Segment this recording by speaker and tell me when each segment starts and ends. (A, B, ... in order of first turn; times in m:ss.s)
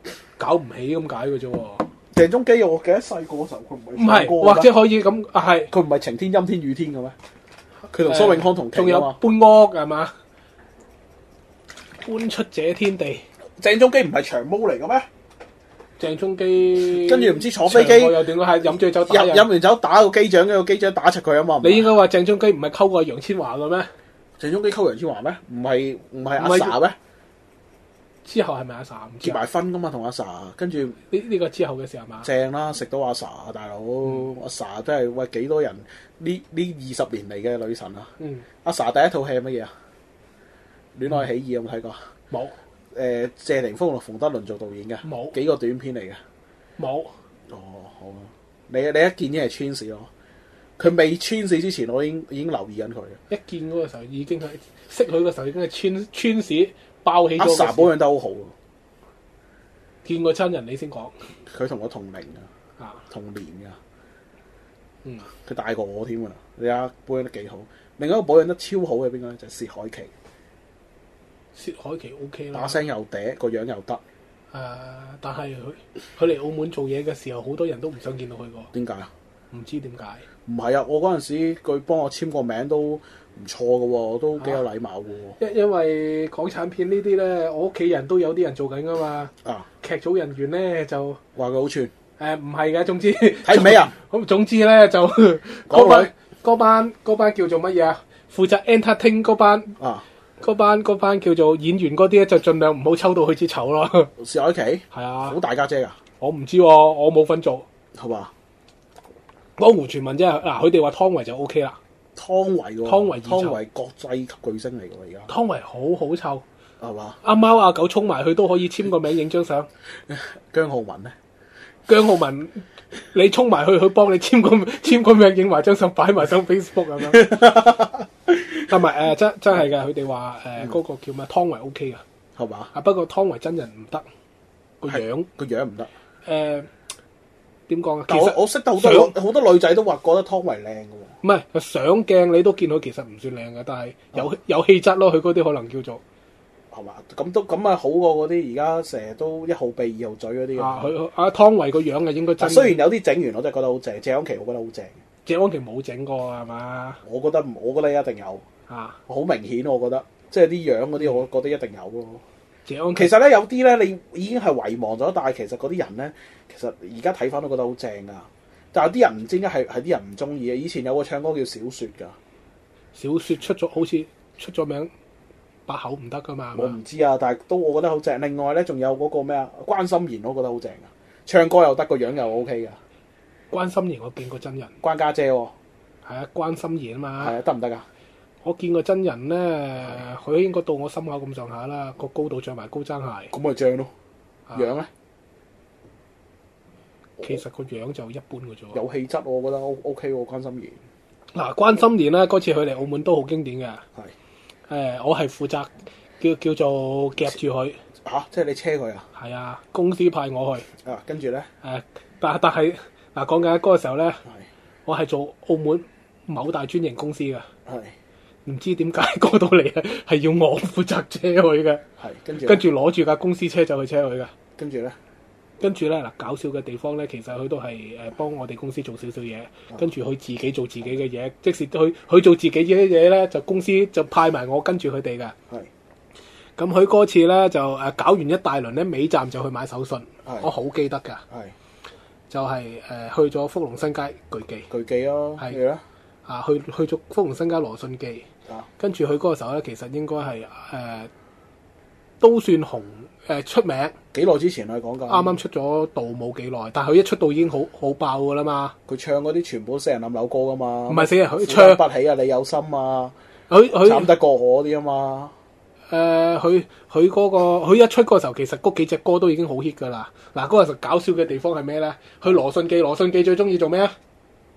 0:00.4-0:01.8 A
0:02.1-0:04.7 B
0:04.0-0:05.7 A
0:05.7-0:07.1 B
0:07.9-0:09.2 B
0:08.0-0:10.1 A
0:12.0-0:13.2 A
0:13.6-0:15.1 B
0:16.0-0:19.5 A
0:16.9-0:18.2 B
0:19.0-0:21.9 B
0:21.6-0:23.9 A
0:24.4-0:27.0 B
0:26.4-0:26.7 A
0:28.2-0:29.4 A
0:29.2-0:31.0 B
0:31.1-0:32.3 A
0:32.2-0:38.1 B
0:38.2-0:38.4 A
0:38.6-0:39.7 B
0:41.0-0:42.1 B
0:42.9-0:46.2 B
0:45.0-0:45.4 A
0:46.8-0:47.1 A
0:47.5-0:50.1 B
0:50.8-0:53.2 B
0:53.3-0:57.9 A
0:57.4-0:58.5 B
1:00.0-1:01.1 A
1:01.5-1:02.5 B
1:03.1-1:03.8 B
1:05.4-1:10.1 B
1:11.5-1:12.8 A
1:12.5-1:14.0 B
1:14.5-1:18.7 A
1:18.7-1:19.1 B
1:19.5-1:20.2 A
1:20.4-1:25.4 B
1:25.4-1:29.3 A
1:29.8-1:31.2 A
1:31.4-1:31.9 B
1:32.2-1:39.8 A
1:33.4-1:33.9 B
1:35.7-1:36.1 B
1:39.8-1:40.0 B
1:40.4-1:44.1 A
1:44.2-1:46.0 B
1:44.9-1:45.4 A
1:46.2-1:47.6 A
1:48.0-1:48.3 B
1:49.6-1:51.8 A
1:52.2-1:55.3 B
1:52.8-1:53.6 A
1:55.3-1:56.4 A
1:56.8-1:57.2 B
1:57.2-1:59.7 A
2:00.1-2:01.1 B
2:01.9-2:07.3 A
2:07.1-2:08.7 B
2:08.7-2:12.0 A
2:12.4-2:12.7 B
2:12.7-2:14.0 A
2:14.8-2:15.3 A
2:14.9-2:15.9 B
2:16.2-2:16.7 A
2:17.7-2:19.1 A
2:18.1-2:21.1 B
2:21.2-2:26.0 A
2:26.7-2:30.9 B
2:30.6-2:32.8 A
2:32.4-2:34.9 B
2:35.2-2:37.0 A
2:37.0-2:38.4 B
2:38.7-2:39.0 A
2:39.1-2:42.2 B
2:42.6-2:43.1 A
2:43.0-2:52.2 B
2:52.9-2:54.9 A
2:55.7-2:56.7 A
2:56.5-3:02.8 B
3:03.5-3:04.7 A
3:04.8-3:05.5 B
3:06.0-3:07.3 A
3:07.2-3:07.8 B
3:08.4-3:13.3 A
3:13.3-3:13.9 B
3:14.5-3:14.9 B
3:17.2-3:18.8 A
3:18.7-3:20.8 B
3:21.3-3:23.8 A
3:24.7-3:27.8 A
3:28.0-3:29.0 B
3:29.1-3:30.7 A
3:30.8-3:31.5 B
3:31.6-3:34.2 A
3:34.8-3:37.5 A
3:37.6-3:37.9 B
3:38.4-3:41.8 A
3:42.0-3:42.6 B
3:42.4-3:44.3 A
3:44.6-3:45.0 B
3:45.6-3:55.3 A
3:56.6-4:01.2 A
4:02.3-4:04.7 A
4:04.7-4:05.8 B
4:06.2-4:08.3 A
4:08.8-4:11.1 A
4:12.2-4:13.9 A
4:14.1-4:15.4 B
4:15.1-4:18.7 A
4:18.9-4:23.1 B
4:20.9-4:21.8 A
4:23.5-4:24.1 A
4:23.8-4:25.3 B
4:25.9-4:33.9 A